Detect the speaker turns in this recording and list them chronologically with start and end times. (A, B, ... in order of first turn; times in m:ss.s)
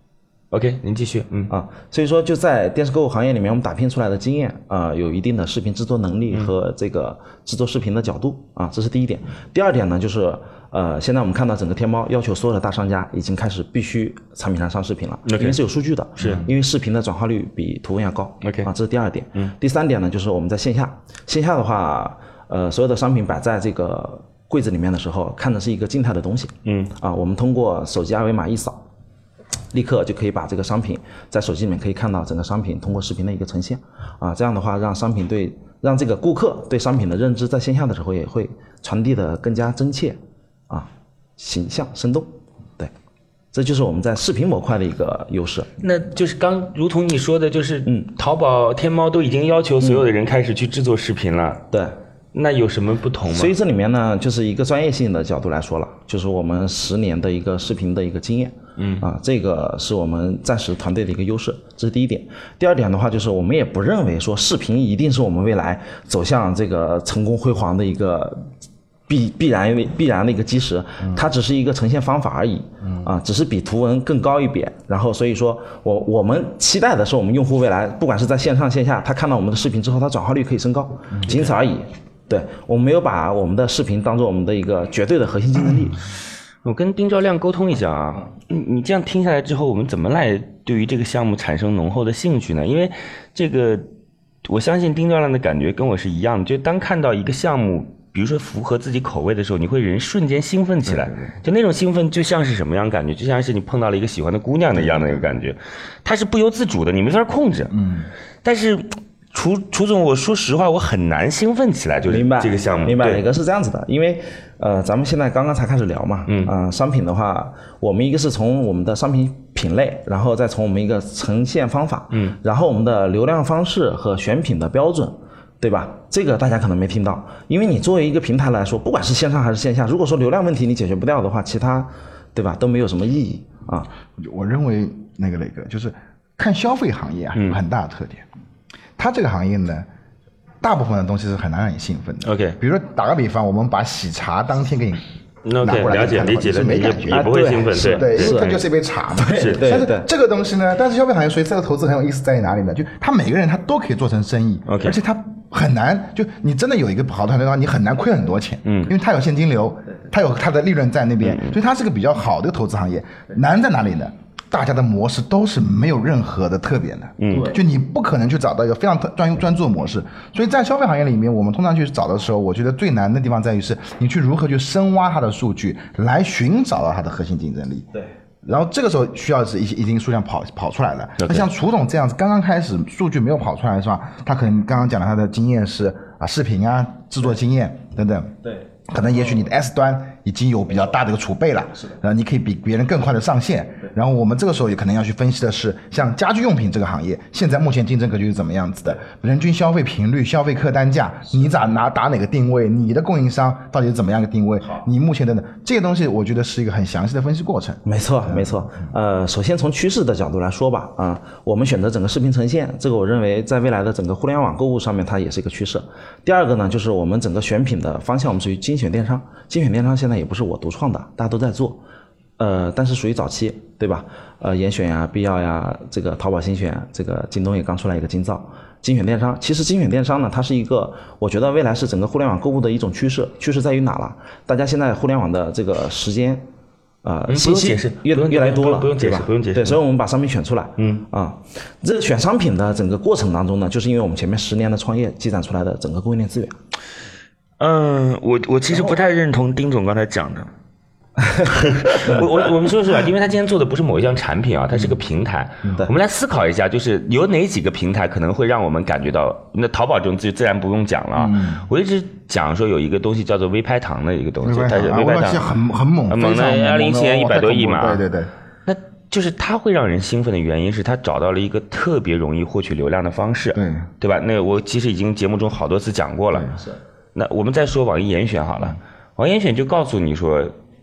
0:00.5-0:01.5 A
0:01.5-0:28.8 B
0:15.3-0:15.6 A
0:16.2-0:16.4 A
0:18.4-0:18.7 A
0:26.6-0:26.9 A
0:29.7-0:40.2 B
0:40.7-0:42.9 B
0:43.5-0:45.7 B
0:45.8-0:51.7 A
0:49.8-0:50.1 B
0:51.7-0:52.0 B
0:52.3-0:53.5 A
0:53.3-1:08.5 B
0:58.8-0:59.1 A
1:09.1-1:26.0 B
1:12.8-1:13.1 C
1:26.6-1:33.9 A
1:34.4-1:47.8 A
1:40.9-1:41.3 C
1:47.7-1:48.1 C
1:48.4-1:53.2 A
1:52.1-2:13.9 B
1:56.3-1:56.5 A
2:02.1-2:02.4 A
2:14.2-2:18.3 C
2:19.0-2:19.9 C
2:20.6-2:25.0 C
2:22.2-2:22.6 A
2:25.4-2:28.4 A
2:25.6-2:57.9 C
2:27.1-2:30.1 B
2:29.3-2:29.6 A
2:34.7-2:35.0 A
2:38.7-2:38.9 A
2:41.2-2:41.6 A
2:47.2-2:47.6 A
2:47.3-2:47.6 B
2:58.4-3:28.5 C
3:01.2-3:01.5 A
3:27.9-3:41.8 B
3:42.4-3:56.4 B
3:57.0-4:06.5 B
3:57.3-3:59.8 A
4:00.8-4:01.1 A
4:07.6-4:10.5 A
4:11.2-4:11.5 B
4:11.4-4:25.4 A
4:21.2-4:21.6 C
4:24.4-4:28.3 C
4:26.1-4:28.0 A
4:28.7-4:36.6 A
4:33.6-4:33.9 C
4:37.2-4:40.5 A